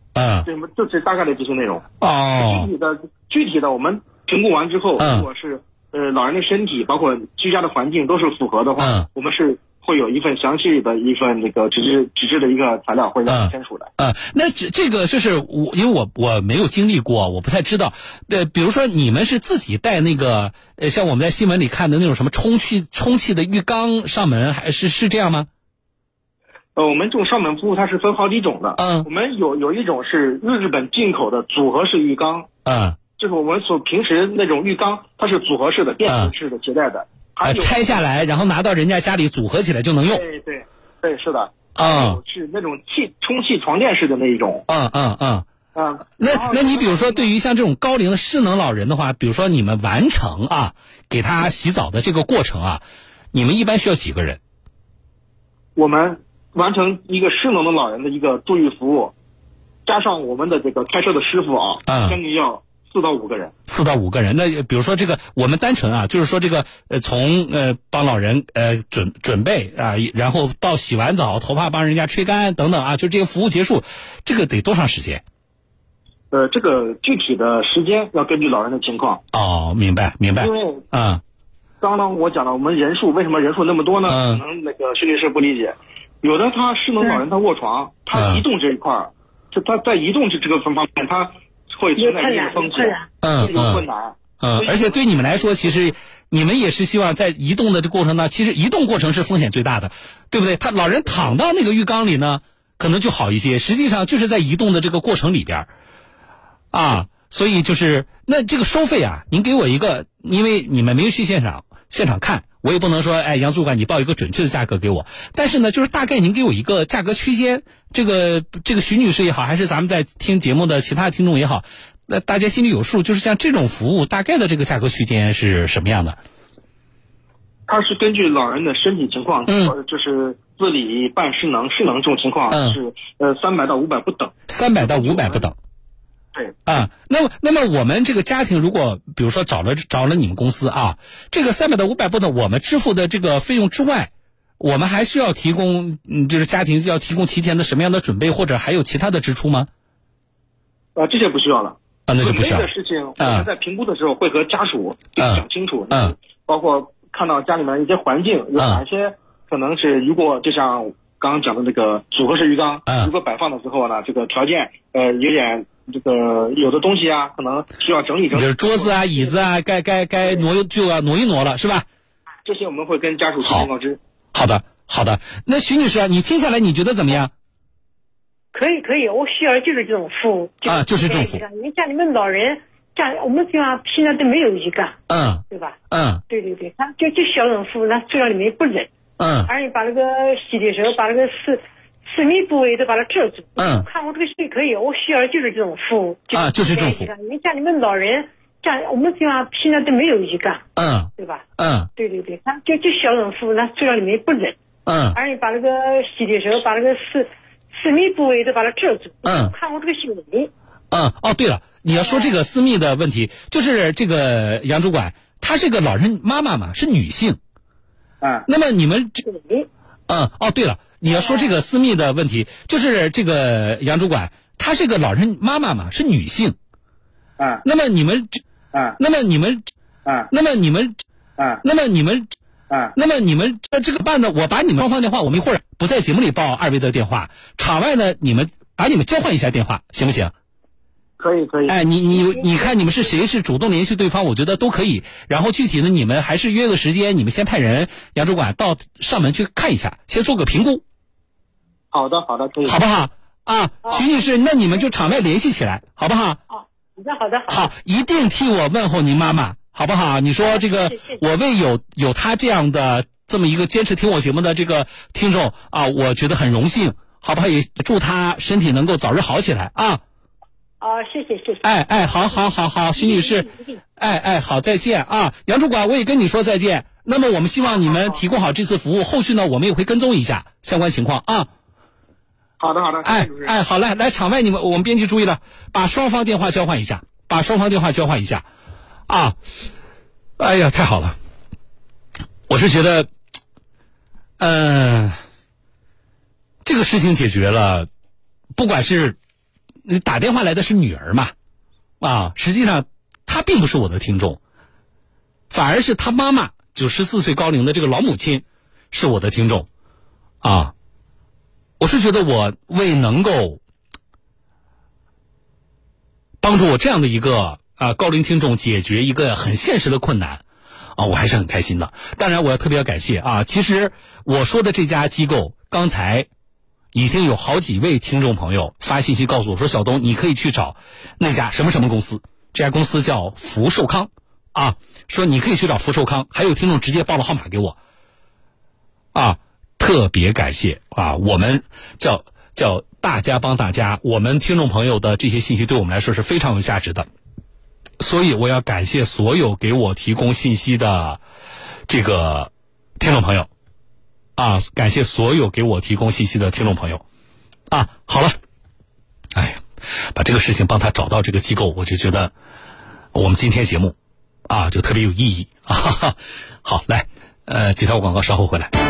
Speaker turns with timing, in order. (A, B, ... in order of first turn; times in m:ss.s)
0:00.1-0:00.5 A
0:00.4-0:01.8 B
0:02.0-0:02.7 A
0:02.5-0:13.9 B
0:05.0-0:05.2 A
0:08.8-0:09.1 A
0:13.3-0:25.5 A
0:26.8-0:32.5 B
0:28.8-0:29.1 A
0:32.6-0:33.0 A
0:33.2-0:37.9 B
0:36.1-0:36.3 A
0:37.4-0:40.2 A
0:40.1-0:44.6 B
0:41.8-0:42.2 A
0:44.7-0:45.4 A
0:45.7-0:47.3 B
0:46.2-0:54.4 A
0:55.8-0:59.1 B
0:59.8-1:03.5 B
1:01.9-1:02.2 A
1:03.7-1:15.2 A
1:16.3-1:19.2 B
1:19.3-1:21.2 A
1:20.4-1:20.8 B
1:21.8-1:35.4 B
1:24.1-1:24.4 A
1:28.1-1:28.4 A
1:32.0-1:33.1 C
1:33.2-1:33.8 A
1:34.4-1:45.7 A
1:46.7-2:06.2 A
2:07.7-2:15.5 B
2:09.5-2:09.7 A
2:12.5-2:12.8 A
2:14.5-2:15.6 A
2:16.6-2:29.7 A
2:31.0-2:49.0 B
2:32.1-2:32.7 A
2:33.2-2:33.5 A
2:35.2-2:36.1 A
2:48.3-2:51.8 A
2:52.4-2:54.0 B
2:53.4-2:53.7 A
2:54.3-2:57.3 A
2:58.5-3:05.0 C
3:00.6-3:01.4 A
3:05.1-3:06.2 A
3:05.5-3:05.8 C
3:06.3-3:08.9 C
3:09.2-3:09.5 A
3:09.5-3:20.6 C
3:13.6-3:13.8 A
3:16.3-3:17.1 A
3:20.8-3:21.9 A
3:21.2-3:21.4 C
3:22.0-3:24.6 C
3:24.8-3:25.2 A
3:25.1-3:30.5 C
3:29.2-3:29.5 A
3:30.9-3:37.4 A
3:31.9-3:32.4 C
3:38.2-3:38.4 B
3:38.5-3:39.2 A
3:39.2-3:39.7 C
3:40.1-3:46.5 A
3:41.1-3:41.6 C
3:47.4-3:47.6 B
3:47.6-3:48.4 A
3:49.0-3:49.7 A
3:50.0-3:50.3 B
3:50.3-3:51.0 A
3:51.4-3:51.6 B
3:51.6-3:52.3 A
3:52.9-4:00.3 A
4:01.2-4:01.8 B
4:01.7-4:10.8 A
4:11.9-4:12.8 B
4:12.6-4:16.4 A
4:16.5-4:17.7 C
4:17.5-4:30.0 A
4:20.4-4:21.2 C
4:30.8-4:33.7 C
4:31.6-4:33.5 A
4:34.0-4:41.5 A
4:42.6-4:43.6 B
4:43.0-4:48.4 A
4:49.1-4:49.4 A
4:50.4-4:51.1 A
4:52.5-4:53.1 A
4:54.4-4:55.2 A
4:56.6-4:57.9 A
4:58.6-4:59.2 A
4:59.8-5:01.3 A
5:02.0-5:04.4 A
5:05.5-5:09.7 A
5:10.4-5:10.7 A
5:11.8-5:13.6 A
5:16.4-5:20.4 A
5:21.0-5:26.3 A
5:26.9-5:37.8 A
5:39.1-5:47.0 A
5:48.0-5:51.2 A
5:51.9-5:53.5 A
5:54.4-5:57.0 A
5:57.7-5:58.4 A
5:59.3-5:59.6 A
6:00.1-6:02.3 A
6:03.1-6:03.9 A
6:04.5-6:08.7 A